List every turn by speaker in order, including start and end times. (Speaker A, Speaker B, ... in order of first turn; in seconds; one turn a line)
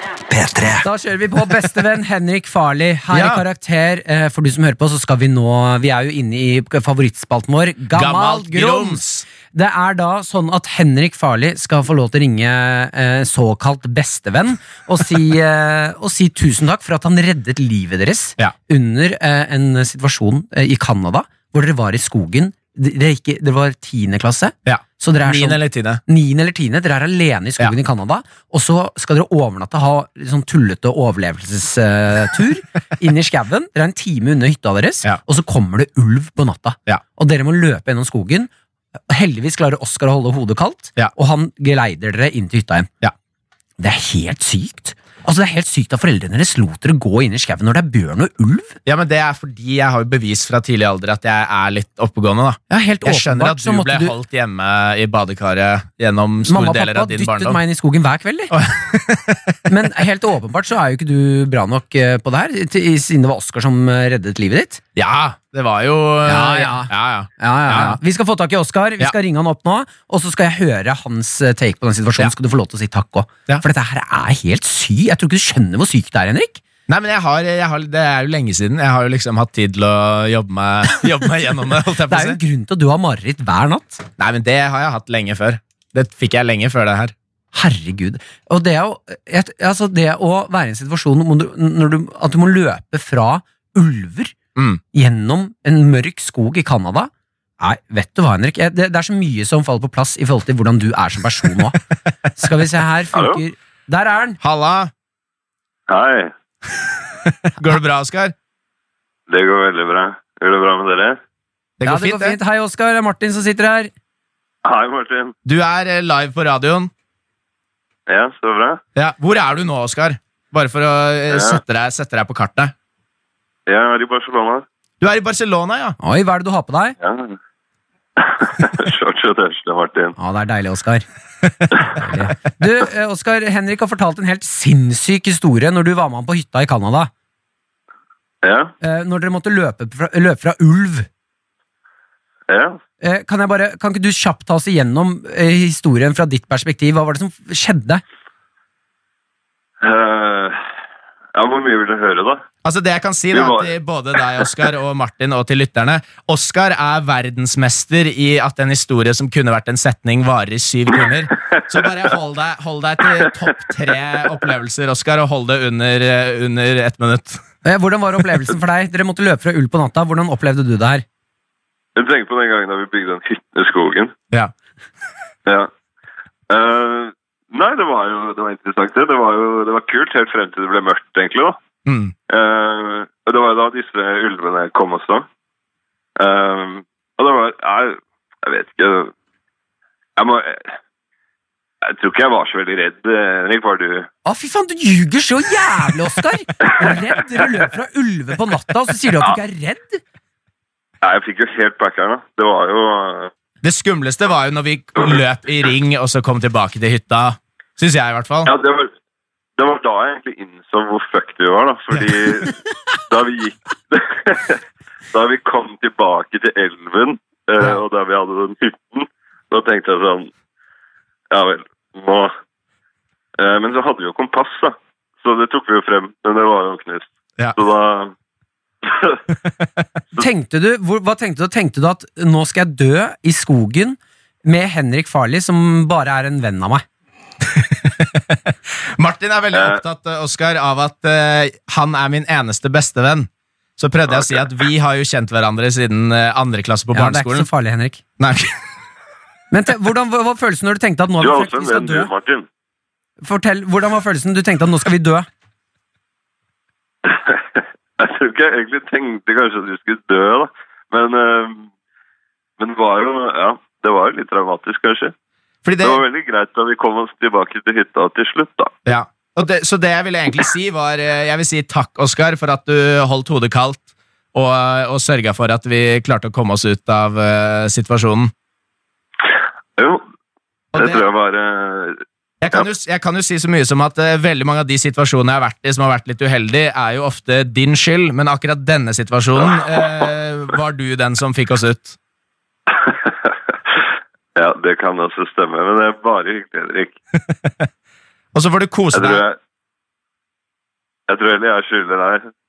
Speaker A: 0.6-38.5
Speaker B: 3.1-3.4
Speaker B: 7.9-9.3
Speaker B: 24.7-26.0
Speaker A: 39.1-42.9
Speaker A: 43.8-48.8
Speaker B: 48.9-57.6
Speaker A: 52.7-54.1
Speaker A: 56.5-58.5
Speaker B: 58.5-59.7
Speaker A: 59.7-64.8
Speaker B: 65.0-68.0
Speaker A: 66.3-76.6
Speaker B: 76.9-82.4
Speaker A: 82.1-84.0
Speaker B: 84.2-87.1
Speaker A: 87.5-94.3
Speaker B: 94.6-94.8
Speaker A: 94.9-101.8
Speaker A: 102.3-104.4
Speaker C: 103.1-103.4
Speaker B: 104.4-104.9
Speaker C: 105.9-106.3
Speaker B: 107.5-108.3
Speaker C: 109.3-111.2
Speaker B: 111.8-112.4
Speaker A: 111.8-113.9
Speaker C: 114.6-115.3
Speaker B: 115.5-116.9
Speaker C: 118.1-118.8
Speaker B: 119.0-122.7
Speaker C: 121.3-121.6
Speaker C: 123.7-124.7
Speaker B: 125.0-126.0
Speaker A: 126.0-127.0
Speaker C: 127.0-127.4
Speaker C: 128.2-130.2
Speaker A: 130.2-131.1
Speaker B: 131.6-132.3
Speaker A: 132.0-137.1
Speaker C: 138.4-138.7
Speaker A: 138.8-141.1
Speaker C: 142.5-142.8
Speaker A: 143.0-148.0
Speaker C: 149.8-150.6
Speaker C: 151.3-152.4
Speaker B: 152.6-167.4
Speaker C: 153.3-153.7
Speaker A: 167.6-171.0
Speaker C: 172.0-174.1
Speaker C: 176.5-181.6
Speaker B: 181.9-182.1
Speaker C: 182.3-185.3
Speaker C: 186.2-189.1
Speaker C: 190.2-190.7
Speaker C: 191.9-194.1
Speaker A: 194.2-200.0
Speaker C: 201.0-203.3
Speaker B: 203.6-208.5
Speaker C: 208.5-208.9
Speaker C: 209.6-212.6
Speaker C: 213.1-214.6
Speaker C: 215.1-220.3
Speaker C: 221.3-222.3
Speaker C: 223.4-228.1
Speaker C: 228.8-229.2
Speaker A: 230.2-236.8
Speaker B: 237.5-247.5
Speaker A: 246.9-248.0
Speaker B: 248.2-248.6
Speaker A: 249.5-252.1
Speaker C: 251.2-252.5
Speaker A: 253.2-255.3
Speaker C: 257.1-261.7
Speaker C: 262.6-265.1
Speaker B: 265.6-266.0
Speaker C: 265.8-268.7
Speaker B: 268.9-278.3
Speaker C: 279.8-280.0
Speaker B: 280.7-281.1
Speaker C: 280.8-282.0
Speaker B: 282.4-292.0
Speaker C: 292.7-293.3
Speaker C: 294.4-297.0
Speaker B: 298.3-299.2
Speaker C: 298.9-299.4
Speaker C: 301.1-302.3